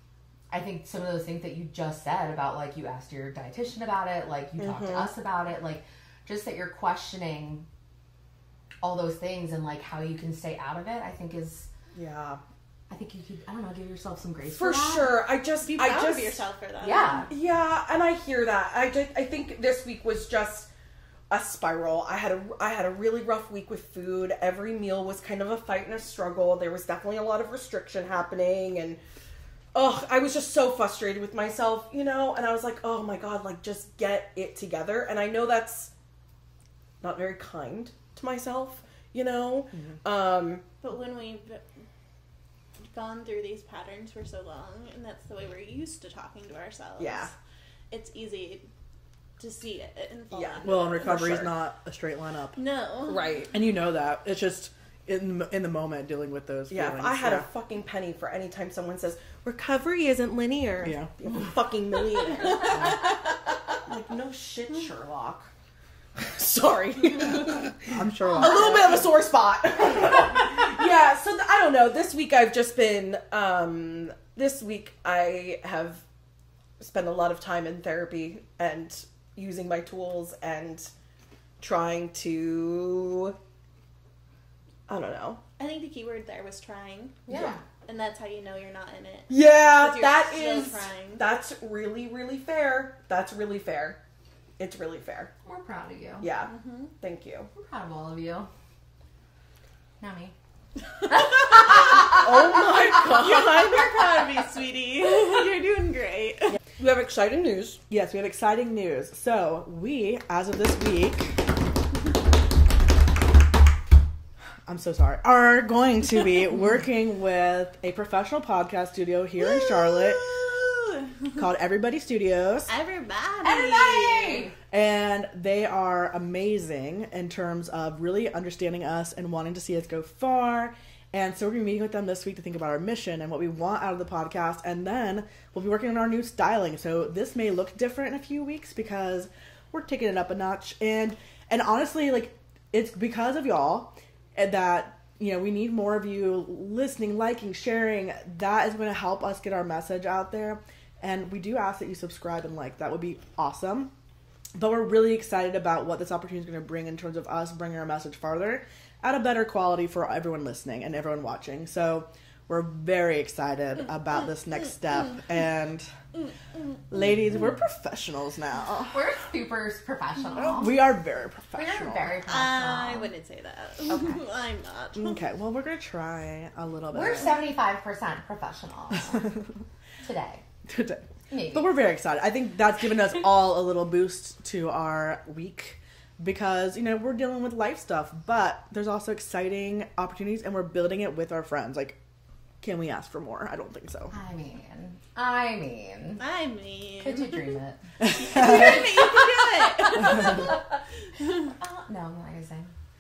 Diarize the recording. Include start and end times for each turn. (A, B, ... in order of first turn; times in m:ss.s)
0:00.5-0:07.7 A
0:04.6-0:05.1 B
0:08.8-0:11.7 A
0:11.9-0:12.4 B
0:12.9-0:15.2 A
0:14.4-0:16.5 B
0:15.6-0:17.3 C
0:16.8-0:17.3 A
0:17.3-0:20.7 B
0:21.3-0:29.0 B
0:29.7-0:35.9 B
0:37.0-0:40.7 B
0:39.7-0:40.0 D
0:40.8-0:41.6 C
0:42.9-0:47.3 C
0:47.0-0:47.3 B
0:47.9-0:48.7 C
0:49.4-0:51.1 C
0:50.3-0:51.5 B
0:50.6-0:52.6 D
0:52.6-0:53.5 C
0:53.1-0:53.5 B
0:53.5-0:57.5 D
0:56.7-1:03.3 B
1:00.8-1:01.1 D
1:03.8-1:05.5 B
1:06.2-1:16.0 B
1:07.9-1:09.0 D
1:16.8-1:20.9 B
1:21.6-1:23.4 B
1:24.9-1:25.4 B
1:25.6-1:27.2 C
1:27.3-1:27.6 A
1:27.3-1:27.6 B
1:27.8-1:31.3 C
1:29.3-1:34.0 B
1:34.6-1:35.3 B
1:35.4-1:36.3 A
1:36.2-1:37.5 B
1:36.5-1:36.9 C
1:37.6-1:38.5 A
1:40.0-1:40.3 A
1:42.0-1:44.1 B
1:42.9-1:46.6 C
1:46.8-1:47.8 B
1:47.9-1:51.5 D
1:54.6-2:00.3 D
1:59.4-2:01.3 C
2:01.4-2:02.7 D
2:02.7-2:04.5 C
2:03.4-2:04.6 A
2:04.7-2:33.9 D
2:34.6-2:45.9 D
2:46.9-2:49.0 D
2:48.9-2:50.9 A
2:50.4-2:52.1 D
2:51.6-2:53.1 A
2:52.3-2:55.2 C
2:53.9-2:54.2 A
2:55.0-2:57.4 D
2:56.9-2:59.4 A
3:00.0-3:00.4 A
3:00.7-3:12.0 D
3:01.3-3:01.7 A
3:12.6-3:14.1 D
3:14.1-3:16.2 A
3:16.2-3:17.5 C
3:17.0-3:19.2 A
3:18.1-3:20.6 C
3:19.8-3:20.6 A
3:21.2-3:21.5 C
3:21.6-3:22.7 A